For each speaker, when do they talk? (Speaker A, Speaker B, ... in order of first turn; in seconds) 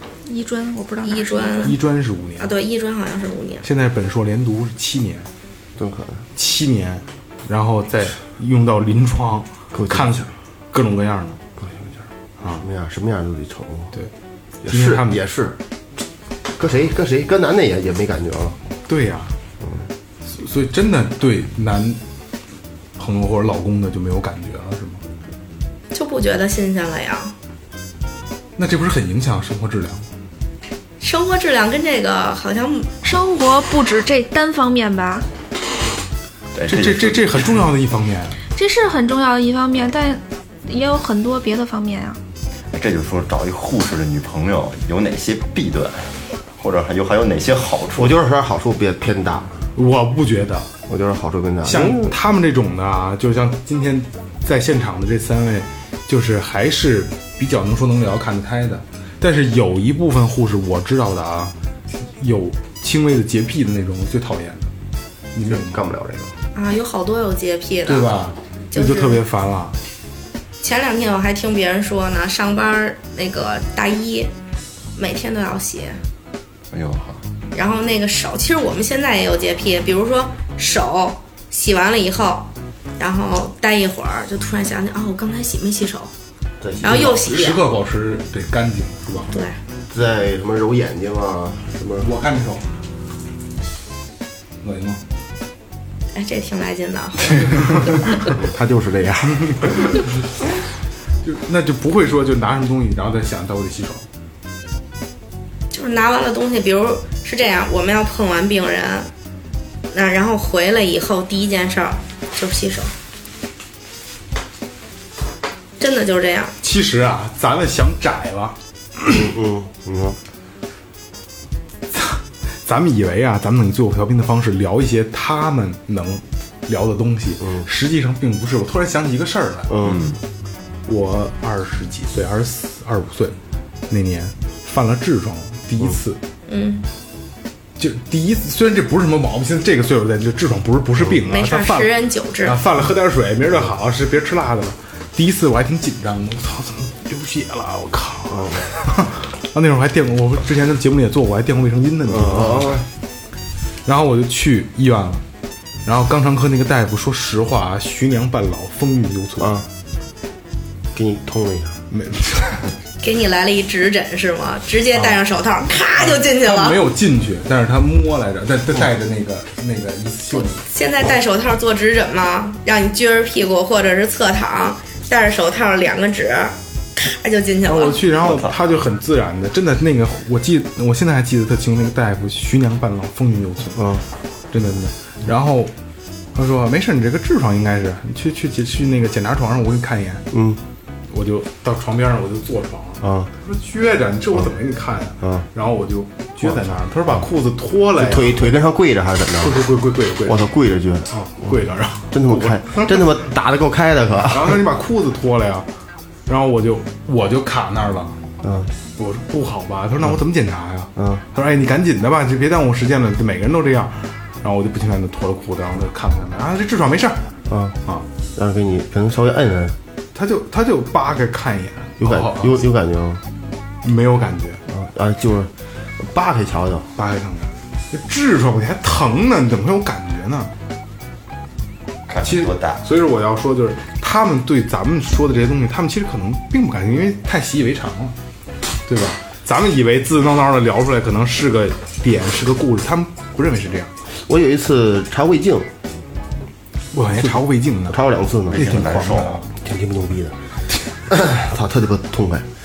Speaker A: 0.2-1.7, 33.0-35.2, 38.5-42.2
Speaker B: 1.0-1.8, 2.4-3.6, 25.9-27.3, 31.0-32.9, 66.5-68.2, 68.7-69.2, 70.6-74.3, 75.0-76.0, 77.5-86.1, 86.8-87.6, 89.3-89.6, 96.1-98.1, 105.7-109.1, 109.9-112.9, 115.8-116.5, 136.5-136.8, 141.2-142.6, 163.0-166.8, 170.4-178.0
Speaker C: 1.6-2.5, 3.6-5.3, 6.3-11.4, 14.7-15.2, 18.9-19.3, 20.3-22.0, 22.9-25.0, 28.6-30.0, 36.6-38.4, 49.7-50.7, 51.6-61.5, 62.2-64.7, 65.3-65.8, 67.8-69.7, 86.8-89.3, 92.0-92.6, 94.6-95.0, 97.6-100.1, 101.2-104.0, 116.6-119.2, 121.9-129.8, 130.8-133.3, 133.9-136.2, 137.8-152.8, 153.8-155.2, 155.8-159.6, 161.9-162.7, 165.9-170.6, 177.6-183.9, 184.5-185.7, 186.3-190.3, 191.1-198.5, 199.4-200.5, 201.1-203.2, 204.3-205.7, 206.3-208.2, 209.0-217.2, 220.1-222.6, 223.8-224.6, 226.9-230.5, 232.2-238.1, 238.8-243.9, 246.9-249.5
Speaker D: 5.8-6.2, 9.7-10.2, 11.6-12.0, 12.6-13.9, 14.6-15.6, 16.6-18.6, 48.0-49.6, 50.9-52.1, 65.4-66.3, 86.6-87.1, 89.9-92.1, 119.0-120.2, 129.7-130.0, 148.3-148.7, 152.1-152.8, 159.4-159.7, 160.9-161.8, 183.8-184.0, 190.3-190.6, 193.0-193.3, 198.0-199.7, 200.2-201.1, 202.1-204.6, 208.4-208.7, 211.0-211.2, 217.5-217.8, 218.3-219.8, 222.0-223.2, 224.7-226.9, 244.3-245.7, 247.9-248.8, 249.6-250.3, 251.1-252.4
Speaker E: 36.5-37.8, 42.7-48.1, 76.7-77.2, 129.8-130.2, 178.2-178.8, 232.1-232.8, 248.5-249.4